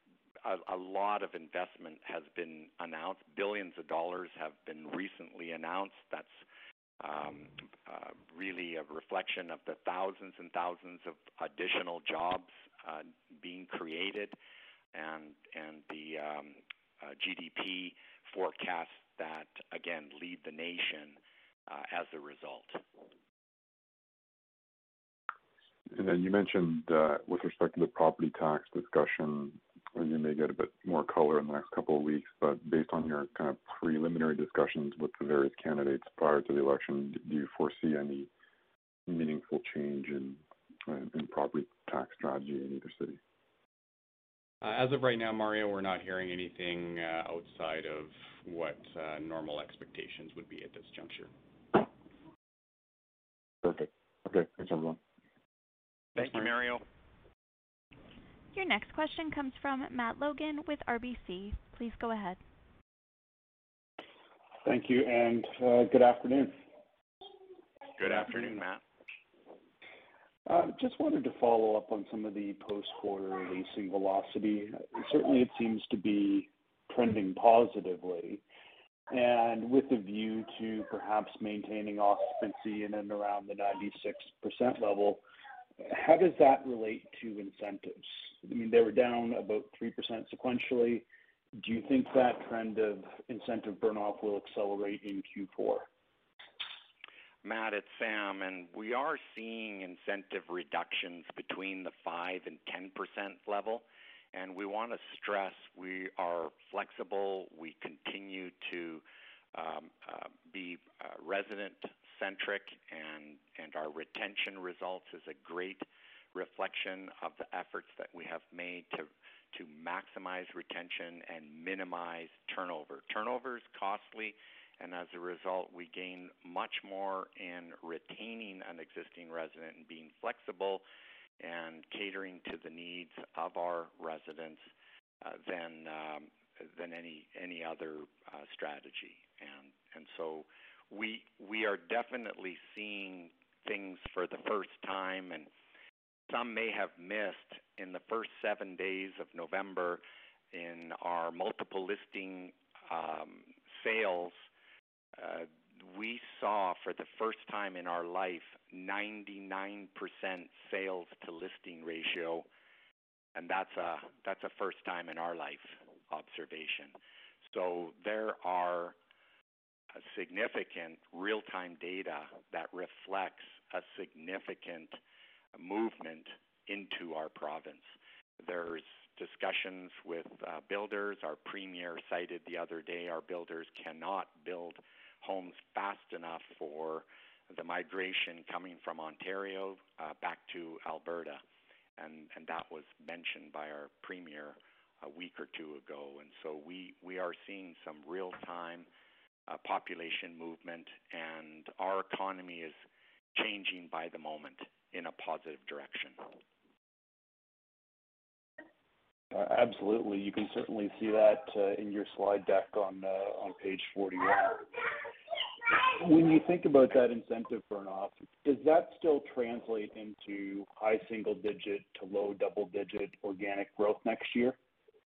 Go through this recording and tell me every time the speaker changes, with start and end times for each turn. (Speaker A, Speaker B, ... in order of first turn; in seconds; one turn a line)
Speaker A: 0.4-6.4
Speaker A: 7.0-14.3
Speaker A: 14.9-22.8
Speaker B: 25.9-38.3
Speaker B: 39.1-43.2
Speaker C: 44.6-51.3
Speaker B: 53.6-55.0
Speaker A: 56.1-56.8
Speaker D: 58.5-62.4
Speaker E: 64.6-66.6
Speaker A: 68.0-68.8
Speaker E: 70.5-78.4
Speaker E: 79.1-85.2
Speaker E: 85.8-91.0
Speaker E: 91.6-95.9
Speaker A: 97.4-130.8
Speaker A: 131.4-134.7
Speaker A: 135.2-145.5
Speaker A: 146.3-154.4
Speaker A: 155.2-162.4
Speaker A: 163.3-166.9
Speaker A: 167.5-168.9
Speaker A: 169.9-175.0
Speaker A: 175.5-191.4
Speaker A: 192.0-198.9
Speaker A: 199.5-202.8
Speaker A: 203.3-206.2
Speaker E: 209.3-214.7
Speaker E: 215.7-224.6